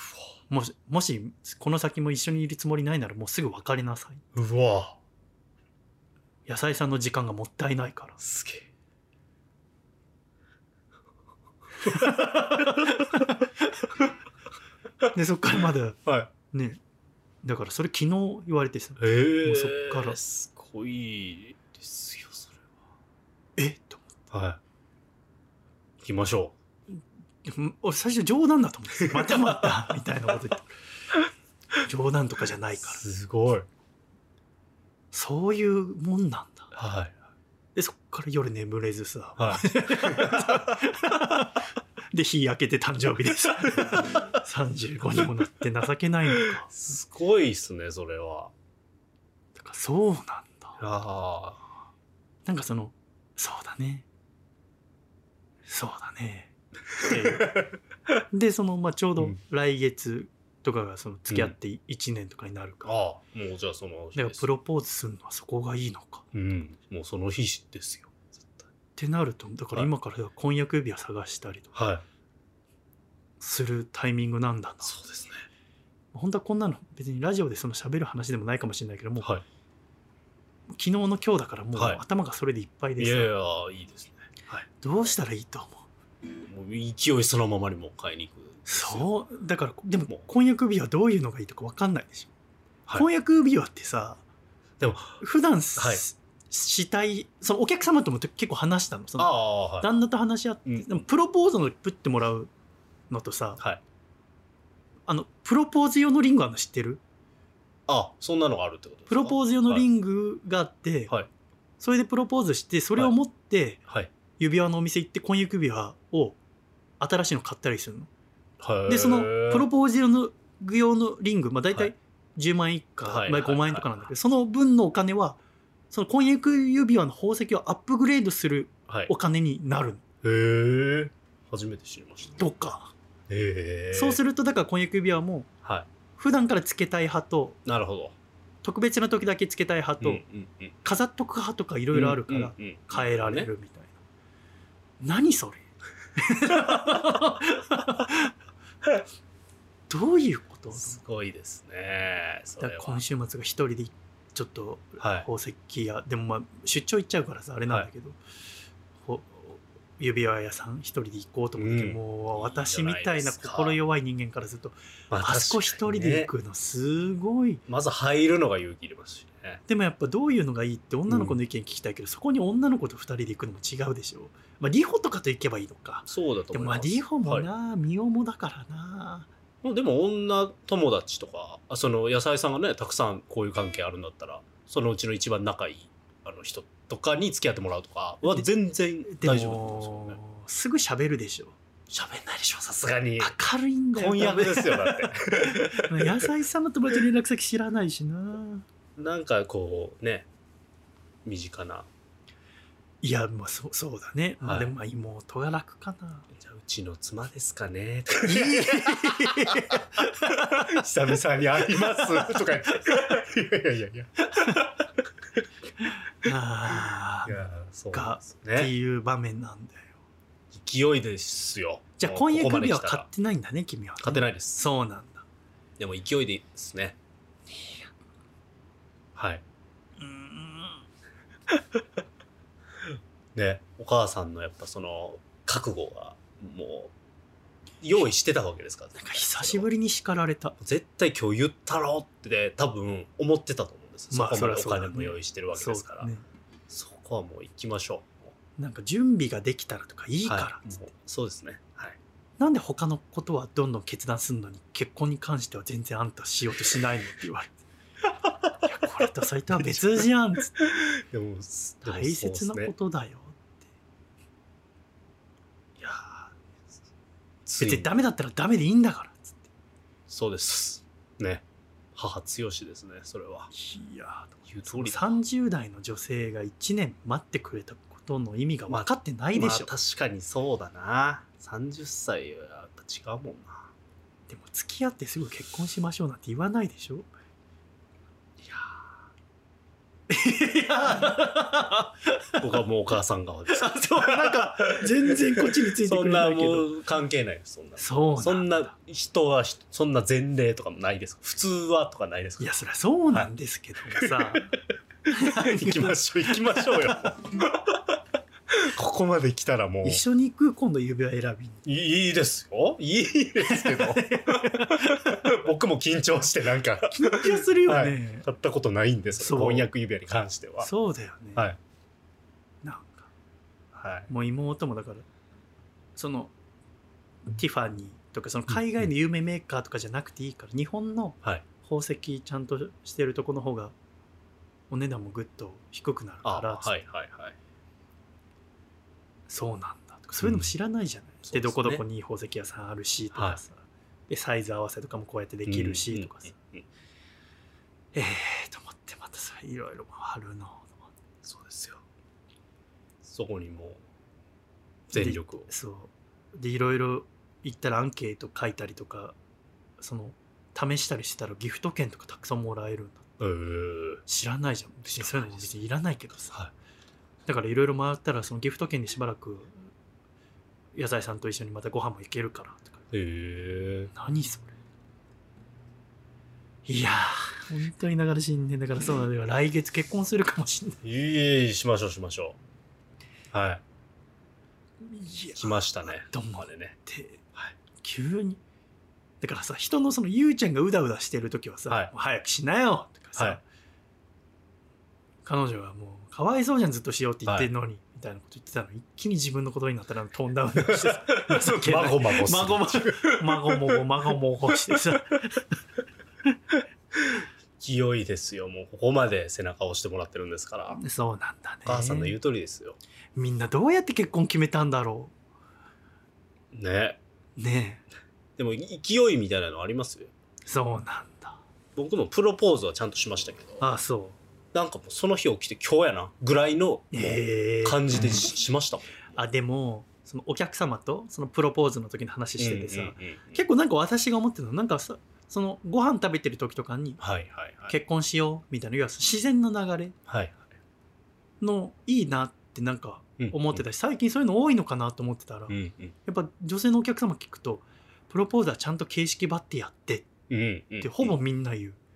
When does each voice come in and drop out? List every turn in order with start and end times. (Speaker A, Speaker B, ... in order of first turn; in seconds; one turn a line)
Speaker A: 0.5-4.2
Speaker B: 4.3-5.0
Speaker A: 6.5-8.2
Speaker B: 8.2-8.7
Speaker A: 11.8-13.7
Speaker B: 11.8-13.0
Speaker A: 15.1-16.0
Speaker B: 16.1-16.3
Speaker A: 16.5-16.8
Speaker A: 17.4-20.2
Speaker B: 19.0-22.6
Speaker A: 23.6-24.1
Speaker B: 24.3-24.6
Speaker B: 26.0-26.5
Speaker A: 26.9-30.7
Speaker B: 29.1-29.7
Speaker A: 31.8-33.0
Speaker B: 32.8-33.7
Speaker A: 35.1-36.7
Speaker B: 36.7-37.1
Speaker A: 37.7-46.7
Speaker B: 39.4-40.8
Speaker B: 46.6-48.5
Speaker A: 49.6-50.8
Speaker B: 50.8-51.6
Speaker A: 52.5-54.0
Speaker A: 55.7-57.6
Speaker B: 57.0-57.6
Speaker A: 58.3-62.9
Speaker B: 61.3-61.5
Speaker B: 62.8-64.5
Speaker A: 64.2-66.3
Speaker B: 66.3-68.7
Speaker A: 69.0-71.7
Speaker B: 71.7-72.0
Speaker A: 73.4-74.9
Speaker B: 74.8-75.5
Speaker A: 76.1-79.3
Speaker A: 80.8-83.3
Speaker B: 81.8-82.0
Speaker B: 83.0-84.6
Speaker A: 84.7-85.8
Speaker B: 86.5-89.1
Speaker A: 88.7-92.3
Speaker A: 92.9-94.2
Speaker B: 94.8-95.2
Speaker A: 95.2-102.5
Speaker B: 95.8-96.0
Speaker B: 99.2-99.9
Speaker B: 100.7-101.0
Speaker A: 103.1-103.6
Speaker A: 105.1-107.0
Speaker B: 107.9-109.8
Speaker A: 109.1-111.1
Speaker A: 111.8-113.8
Speaker A: 114.4-116.4
Speaker A: 117.0-118.1
Speaker B: 118.6-119.7
Speaker A: 118.9-125.4
Speaker B: 123.0-123.9
Speaker A: 125.9-130.0
Speaker B: 130.2-132.4
Speaker A: 132.4-132.9
Speaker B: 133.3-134.2
Speaker A: 133.9-135.5
Speaker A: 136.2-137.6
Speaker B: 137.6-138.2
Speaker A: 138.6-140.2
Speaker B: 140.0-140.7
Speaker A: 140.8-143.9
Speaker B: 141.9-143.5
Speaker A: 145.0-145.6
Speaker A: 146.2-148.3
Speaker B: 146.5-147.0
Speaker A: 149.9-151.0
Speaker B: 150.7-153.0
Speaker A: 152.6-158.2
Speaker B: 155.0-155.3
Speaker A: 159.0-167.6
Speaker B: 161.6-163.8
Speaker B: 165.1-166.3
Speaker B: 167.7-169.6
Speaker A: 169.7-179.3
Speaker B: 171.1-171.4
Speaker B: 176.1-177.5
Speaker B: 179.6-190.2
Speaker A: 189.1-191.5
Speaker B: 191.9-193.3
Speaker A: 193.2-198.7
Speaker B: 193.9-196.3
Speaker B: 198.9-200.3
Speaker B: 201.2-201.9
Speaker A: 203.0-206.3
Speaker B: 204.4-204.7
Speaker B: 206.3-214.7
Speaker A: 208.2-213.1
Speaker A: 214.2-214.8
Speaker A: 215.8-217.4
Speaker B: 217.2-218.7
Speaker A: 217.9-219.9
Speaker B: 220.5-223.1
Speaker A: 222.0-225.2
Speaker B: 224.0-224.6
Speaker B: 225.8-227.0
Speaker B: 229.1-229.4
Speaker A: 230.0-230.8
Speaker B: 233.3-236.9
Speaker B: 237.8-239.7
Speaker A: 238.9-240.6
Speaker B: 240.6-246.1
Speaker A: 244.1-246.2
Speaker B: 246.7-248.3
Speaker A: 248.6-250.9
Speaker B: 250.2-252.0
Speaker A: 252.4-257.6
Speaker B: 258.3-258.6
Speaker A: 258.6-260.6
Speaker B: 259.5-262.7
Speaker A: 261.8-263.5
Speaker B: 265.8-266.3
Speaker B: 267.4-267.9
Speaker A: 267.6-269.4
Speaker B: 270.1-271.4
Speaker B: 271.9-273.5
Speaker A: 273.5-279.7
Speaker B: 274.5-275.2
Speaker B: 278.7-283.7
Speaker A: 284.3-287.1
Speaker B: 288.4-288.9
Speaker A: 290.1-292.4
Speaker B: 292.4-302.5
Speaker A: 293.5-296.7
Speaker A: 297.8-298.7
Speaker A: 302.4-307.1
Speaker B: 303.9-308.0
Speaker B: 308.5-310.0
Speaker A: 309.8-311.6
Speaker B: 311.6-320.7
Speaker A: 313.4-315.3
Speaker A: 316.9-318.3
Speaker A: 319.2-319.7
Speaker A: 320.6-321.4
Speaker A: 322.6-323.1
Speaker B: 323.7-324.1
Speaker A: 324.1-325.1
Speaker A: 325.9-326.3
Speaker A: 327.3-333.7
Speaker A: 334.7-336.7
Speaker B: 336.2-337.4
Speaker A: 339.3-346.3
Speaker B: 340.2-340.5
Speaker B: 341.2-341.8
Speaker B: 343.1-343.4
Speaker B: 345.5-346.6
Speaker A: 347.9-350.8
Speaker B: 351.2-351.8
Speaker B: 353.0-353.8
Speaker B: 354.9-355.5
Speaker A: 354.9-359.1
Speaker A: 359.8-363.1
Speaker B: 363.2-364.0
Speaker A: 364.1-366.4
Speaker B: 364.9-365.5
Speaker A: 367.2-369.6
Speaker A: 370.7-372.8
Speaker B: 372.9-373.9
Speaker A: 373.9-374.6
Speaker A: 376.6-380.8
Speaker B: 380.8-382.4
Speaker B: 383.3-383.6
Speaker A: 384.8-387.2
Speaker B: 385.4-386.8
Speaker A: 387.8-388.4
Speaker A: 389.2-393.4
Speaker A: 395.2-405.6
Speaker B: 400.7-403.8
Speaker B: 406.9-410.8
Speaker A: 410.7-412.2
Speaker B: 411.6-412.8
Speaker A: 413.1-415.1
Speaker B: 416.5-417.0
Speaker A: 417.4-417.8
Speaker B: 418.4-420.1
Speaker A: 420.4-421.4
Speaker B: 421.8-423.6
Speaker A: 423.6-424.2
Speaker B: 424.5-429.0
Speaker A: 426.9-428.1
Speaker A: 429.1-437.0
Speaker B: 432.4-433.4
Speaker B: 437.0-437.7
Speaker A: 437.7-439.9
Speaker B: 440.1-440.4
Speaker A: 441.4-450.1
Speaker B: 443.2-443.6
Speaker B: 445.5-445.9
Speaker B: 450.3-451.1
Speaker A: 450.8-451.8